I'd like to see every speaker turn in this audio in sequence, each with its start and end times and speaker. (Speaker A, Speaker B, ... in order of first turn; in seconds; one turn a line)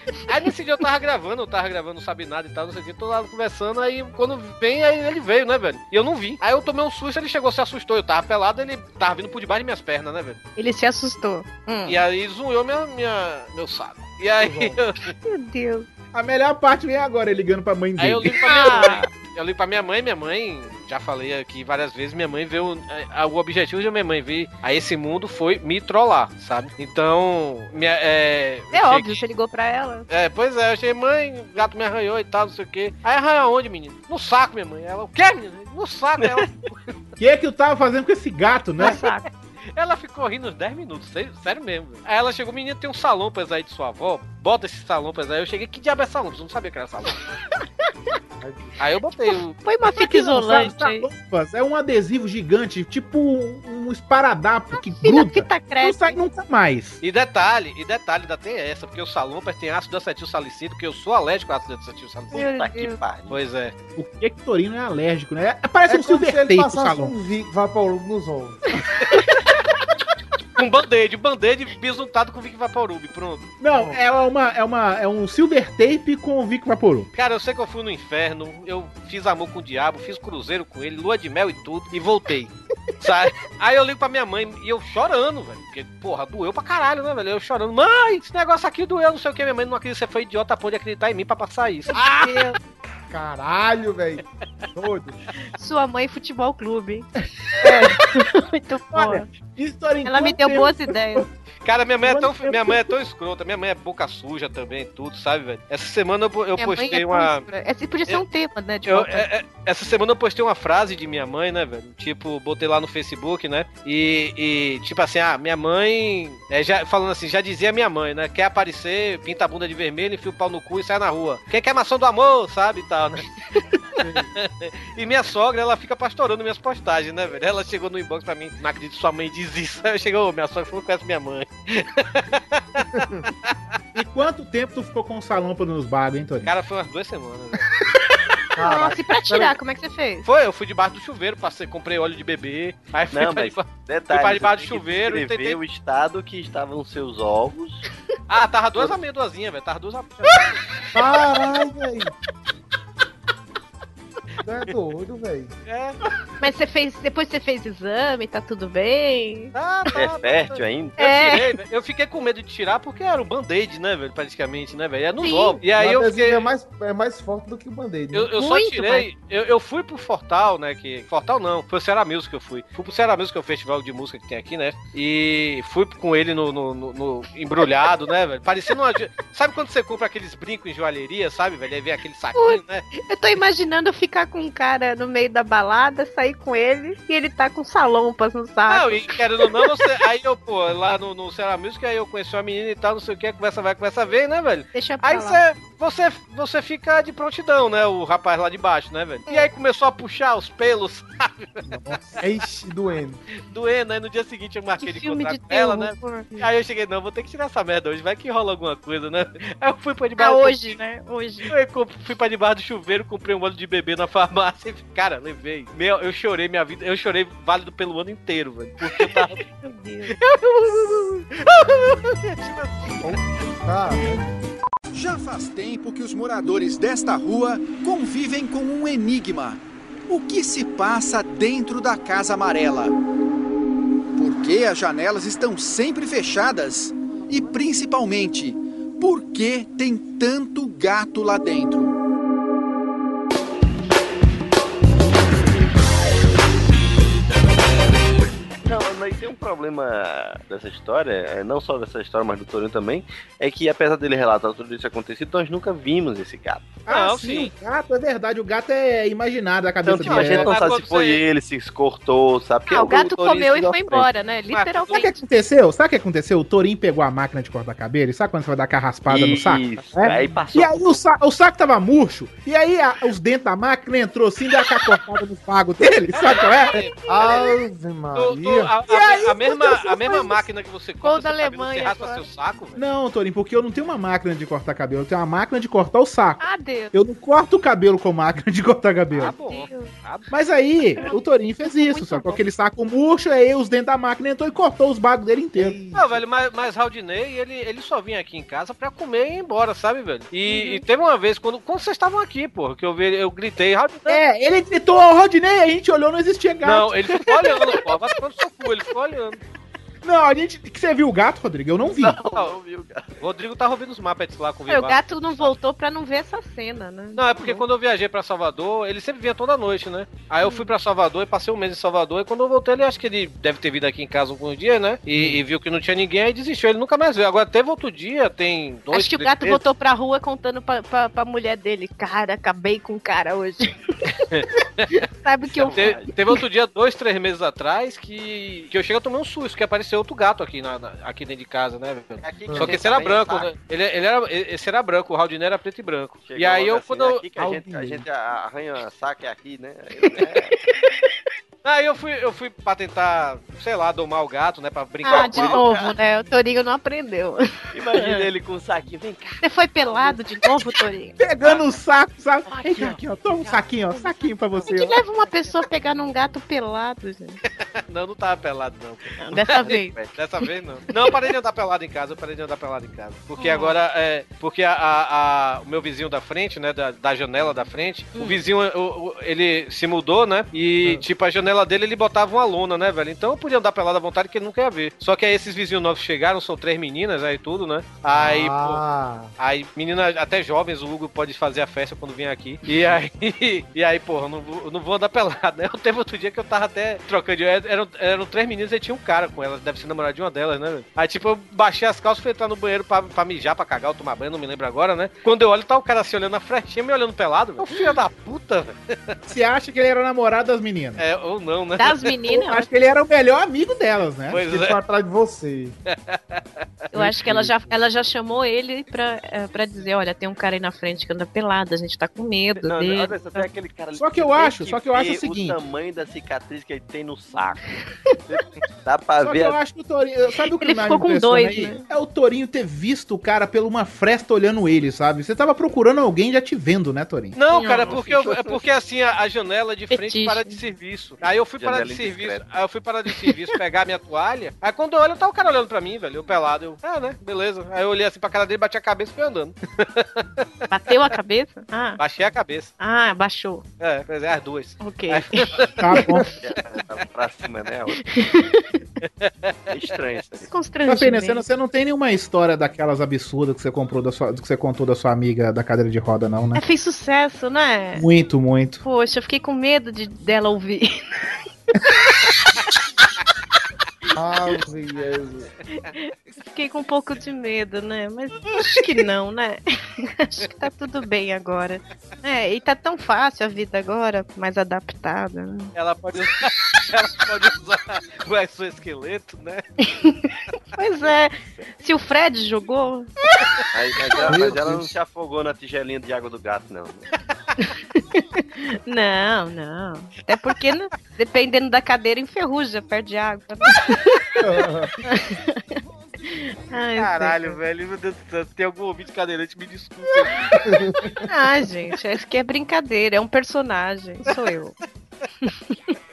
Speaker A: 0.3-10.4
Speaker B: 10.6-12.0
Speaker A: 11.9-15.1
Speaker C: 14.4-14.8
Speaker B: 15.2-15.9
Speaker D: 16.1-18.4
Speaker A: 18.0-29.2
Speaker B: 18.4-19.1
Speaker B: 28.7-30.1
Speaker A: 30.1-36.8
Speaker D: 37.2-39.0
Speaker B: 38.8-39.2
Speaker A: 39.8-47.2
Speaker C: 48.4-48.8
Speaker A: 48.8-49.6
Speaker B: 49.6-51.1
Speaker D: 49.9-57.0
Speaker B: 54.7-56.2
Speaker A: 57.0-62.4
Speaker B: 62.3-63.0
Speaker E: 62.3-63.4
Speaker A: 63.3-63.7
Speaker D: 64.0-67.1
Speaker C: 65.9-68.6
Speaker A: 70.6-73.5
Speaker D: 73.6-77.1
Speaker A: 77.1-92.0
Speaker B: 91.9-92.6
Speaker C: 93.1-95.2
Speaker B: 95.5-97.1
Speaker B: 97.6-99.3
Speaker D: 98.9-101.3
Speaker B: 100.0-101.3
Speaker A: 101.6-107.5
Speaker D: 102.1-102.9
Speaker B: 106.6-109.3
Speaker A: 108.9-123.3
Speaker C: 124.0-124.3
Speaker A: 124.3-132.8
Speaker C: 132.9-133.2
Speaker D: 134.0-136.5
Speaker A: 136.4-137.6
Speaker C: 138.6-139.6
Speaker B: 138.6-140.3
Speaker A: 140.2-145.6
Speaker E: 143.1-147.8
Speaker A: 148.3-150.6
Speaker C: 150.9-152.1
Speaker C: 154.4-155.5
Speaker A: 155.7-156.0
Speaker B: 156.4-159.5
Speaker A: 159.5-166.4
Speaker E: 160.0-161.0
Speaker B: 161.0-161.5
Speaker B: 165.2-165.6
Speaker C: 165.7-168.3
Speaker A: 168.1-182.8
Speaker B: 168.3-169.1
Speaker B: 182.3-189.7
Speaker A: 188.7-201.7
Speaker B: 194.7-195.4
Speaker C: 202.2-203.2
Speaker A: 203.4-210.8
Speaker B: 204.8-206.5
Speaker B: 210.2-211.5
Speaker A: 211.5-219.4
Speaker B: 219.3-220.2
Speaker A: 220.1-223.2
Speaker C: 223.0-224.3
Speaker F: 224.9-232.9
Speaker F: 234.2-242.0
Speaker E: 248.6-256.8
Speaker D: 256.9-260.6
Speaker A: 256.9-257.5
Speaker E: 259.8-264.1
Speaker A: 260.1-261.2
Speaker B: 262.7-265.3
Speaker A: 264.5-265.1
Speaker D: 264.9-276.8
Speaker E: 269.1-271.0
Speaker A: 276.1-277.4
Speaker C: 277.1-278.7
Speaker B: 277.2-277.5
Speaker A: 278.1-282.8
Speaker D: 278.9-279.9
Speaker B: 281.0-282.2
Speaker D: 282.8-289.4
Speaker B: 286.4-286.9
Speaker A: 289.1-290.3
Speaker B: 289.2-289.9
Speaker D: 290.3-295.8
Speaker B: 291.0-292.4
Speaker C: 295.6-296.2
Speaker A: 295.9-304.2
Speaker B: 300.5-300.9
Speaker D: 304.1-306.9
Speaker A: 306.6-309.4
Speaker D: 310.0-312.2
Speaker E: 311.9-313.1
Speaker A: 312.3-312.6
Speaker A: 313.2-315.6
Speaker B: 314.7-317.6
Speaker A: 317.2-329.6
Speaker B: 320.4-320.7
Speaker B: 328.9-333.8
Speaker A: 334.3-334.9
Speaker B: 334.9-335.9
Speaker E: 335.5-336.1
Speaker A: 335.7-347.2
Speaker E: 342.2-343.5
Speaker C: 342.5-342.7
Speaker E: 346.2-350.5
Speaker C: 347.4-348.1
Speaker B: 350.0-351.1
Speaker A: 351.6-355.6
Speaker B: 355.0-358.3
Speaker E: 355.1-356.0
Speaker E: 357.7-359.4
Speaker B: 359.4-361.2
Speaker E: 359.9-360.2
Speaker D: 361.2-365.0
Speaker B: 364.6-367.4
Speaker A: 367.9-388.8
Speaker B: 369.2-370.0
Speaker E: 369.4-370.1
Speaker B: 373.4-373.8
Speaker B: 378.2-378.4
Speaker C: 388.1-389.3
Speaker A: 389.4-409.1
Speaker D: 409.3-411.0
Speaker A: 411.0-412.1
Speaker B: 411.8-412.7
Speaker D: 412.3-414.4
Speaker A: 414.3-414.8
Speaker C: 414.4-415.8
Speaker A: 415.9-416.9
Speaker B: 416.9-423.5
Speaker E: 422.6-427.6
Speaker D: 423.9-425.6
Speaker E: 428.3-429.6
Speaker D: 429.2-437.4
Speaker B: 430.4-431.9
Speaker A: 437.4-450.4
Speaker B: 437.5-438.4
Speaker E: 437.9-438.6
Speaker B: 439.9-440.6
Speaker E: 441.6-442.4
Speaker B: 450.7-452.0
Speaker A: 452.0-452.7
Speaker B: 452.8-453.6
Speaker A: 453.8-455.8
Speaker B: 454.8-456.3
Speaker D: 455.8-456.3
Speaker E: 456.4-458.0
Speaker B: 457.9-458.8
Speaker A: 459.0-459.6
Speaker E: 459.7-460.5
Speaker B: 460.5-461.4
Speaker D: 460.9-466.6
Speaker B: 466.5-468.1
Speaker D: 467.9-468.8
Speaker B: 468.8-471.0
Speaker C: 474.1-475.5
Speaker B: 475.8-485.7
Speaker A: 485.8-489.6
Speaker B: 489.9-493.1
Speaker E: 493.7-497.1
Speaker C: 494.3-494.9
Speaker B: 497.6-504.3
Speaker C: 504.4-504.9
Speaker B: 505.1-505.6
Speaker B: 506.2-507.6
Speaker A: 507.0-510.4
Speaker C: 510.6-511.2
Speaker B: 511.3-514.8
Speaker B: 515.4-515.8